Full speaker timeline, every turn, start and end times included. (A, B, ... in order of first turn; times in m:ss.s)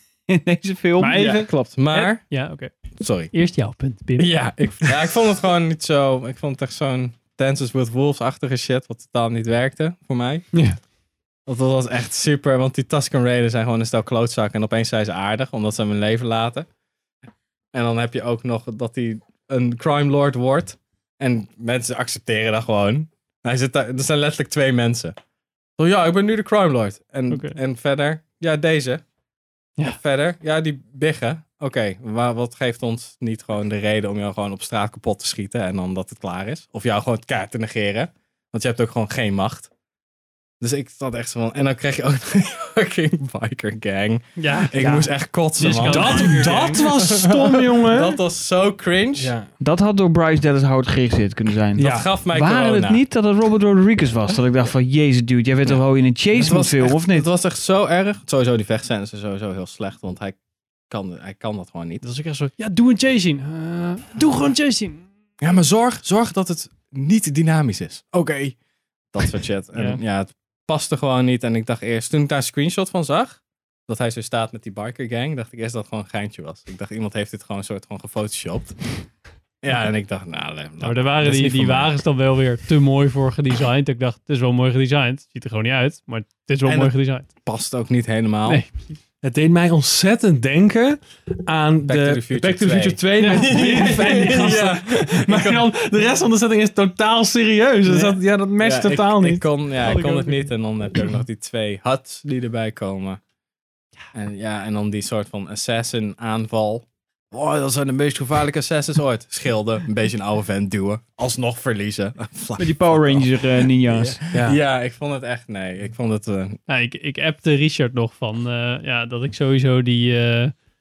0:00.3-0:01.5 A
0:01.0-0:02.7 B
0:01.4-0:02.2 C
0:03.0-0:03.3 C
0:03.3-0:04.3 B
0:04.2-0:10.5 C
0:11.5-0:16.7 C
0:17.7-0:25.1 C
0:25.8-0:29.0 C
0:27.3-0:27.6 B
0:29.8-0:39.7 C
0:40.6-0:49.3 C
0:44.4-0:44.7 B
0:44.7-0:45.1 A
0:45.6-0:46.7 B
0:45.9-0:48.2 D
0:49.2-0:49.5 D
0:49.6-0:57.3 A
0:51.8-0:52.1 D
0:51.8-0:53.0 C
0:56.3-1:00.4 C
1:00.9-1:02.0 C
1:02.0-1:05.0 B
1:05.4-1:08.6 C
1:09.1-1:18.8 C
1:09.7-1:10.0 B
1:19.6-1:22.0 C
1:20.8-1:27.3 B
1:26.6-1:28.6 C
1:28.4-1:28.8 B
1:29.2-1:39.4 D
1:31.8-1:35.6 C
1:33.1-1:34.3 B
1:37.8-1:43.2 C
1:39.8-1:41.2 B
1:44.1-1:56.6 C
1:52.6-1:54.2 A
1:54.3-1:54.6 D
1:56.7-2:00.5 B